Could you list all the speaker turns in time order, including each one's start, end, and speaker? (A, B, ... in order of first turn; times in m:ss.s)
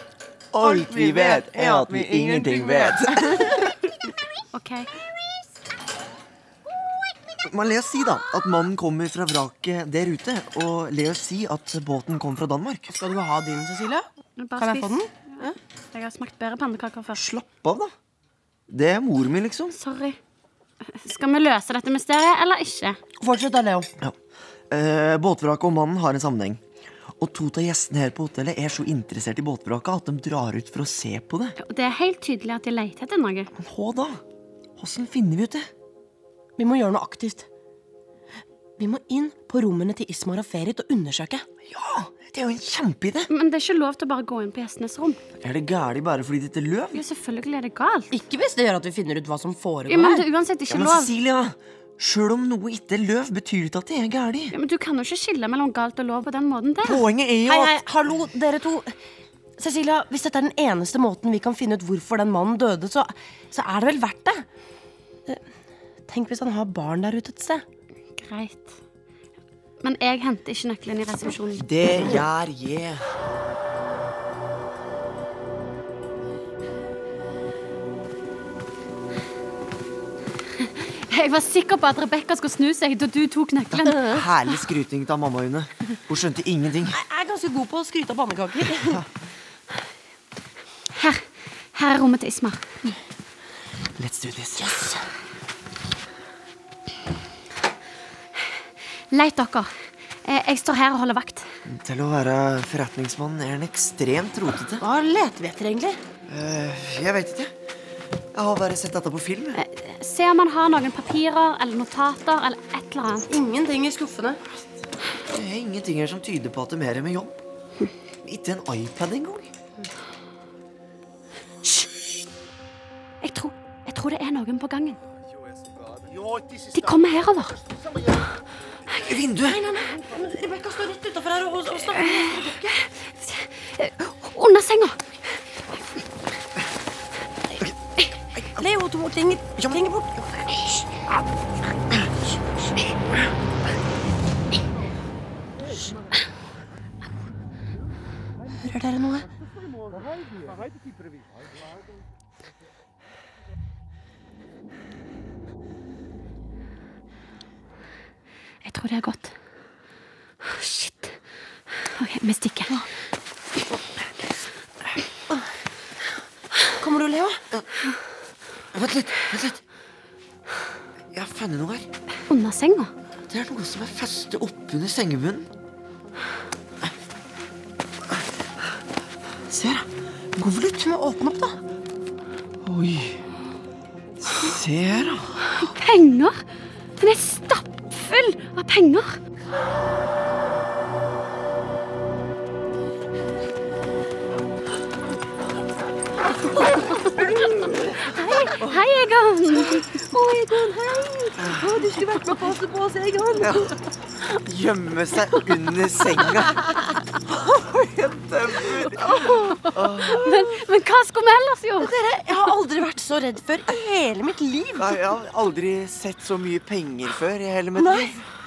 0:00.5-0:03.7 A
0:00.6-0:03.4 B
0:04.5-0:04.9 C
0:07.4-0:12.9 A
0:12.9-0:14.1 B
0:14.4-0:17.2 C
0:14.6-0:15.6 B
0:17.2-0:17.9 A
0:18.7-0:19.8 A
0:19.7-0:20.2 C
0:20.9-0:23.0 C
0:23.2-0:23.9 B
0:24.7-0:26.6 A
0:27.2-0:31.6 A
0:31.6-0:33.5 C
0:33.6-0:34.2 A
0:34.8-0:35.7 A
0:36.6-0:37.5 B
0:38.8-0:41.4 B
0:41.7-0:43.3 A
0:43.3-0:45.2 C
0:45.4-0:47.0 A
0:46.9-0:48.1 C
0:48.1-0:50.3 B
0:49.9-0:51.1 C
0:50.7-0:54.5 A
0:54.5-0:57.0 C
0:56.8-0:57.8 A
0:57.5-0:58.9 B
0:59.6-1:04.4 B
1:06.1-1:07.6 B
1:08.2-1:08.8 C
1:09.8-1:11.7 C
1:11.6-1:13.0 A
1:20.6-1:24.2 C
1:23.7-1:27.0 A
1:23.9-1:24.2 B
1:26.9-1:29.0 B
1:30.9-1:32.6 C
1:34.0-1:34.8 A
1:34.6-1:35.0 B
1:39.1-1:39.7 C
1:40.2-1:41.5 C
1:41.7-1:44.8 A
1:44.8-1:46.0 B
1:46.3-1:47.5 A
1:48.3-1:49.6 A
1:49.6-1:53.3 C
1:53.3-1:54.4 B
1:55.3-1:57.4 A
1:58.2-1:59.5 A
2:03.2-2:05.0 C
2:06.7-2:07.6 C
2:08.9-2:09.7 A
2:09.4-2:12.8 B
2:11.9-2:15.0 C
2:18.4-2:18.6 A
2:18.6-2:20.8 B
2:28.6-2:29.3 B
2:38.6-2:39.3 C
2:40.4-2:41.1 C
2:41.9-2:42.8 C
2:46.8-2:47.4 B
2:48.7-2:49.6 A
2:51.1-2:51.9 A
2:52.3-2:52.9 C
2:53.3-2:55.5 A
2:59.5-2:59.9 A
3:00.5-3:01.6 B
3:02.6-3:03.2 A
3:04.2-3:05.4 A
3:05.6-3:06.4 C
3:07.0-3:09.2 C
3:17.6-3:19.9 C
3:20.0-3:23.7 B
3:21.4-3:21.8 A
3:23.4-3:23.7 A
3:24.4-3:26.6 A
3:27.3-3:30.4 A
3:29.7-3:31.9 C
3:31.8-3:35.0 B
3:34.8-3:38.2 A
3:37.8-3:38.1 B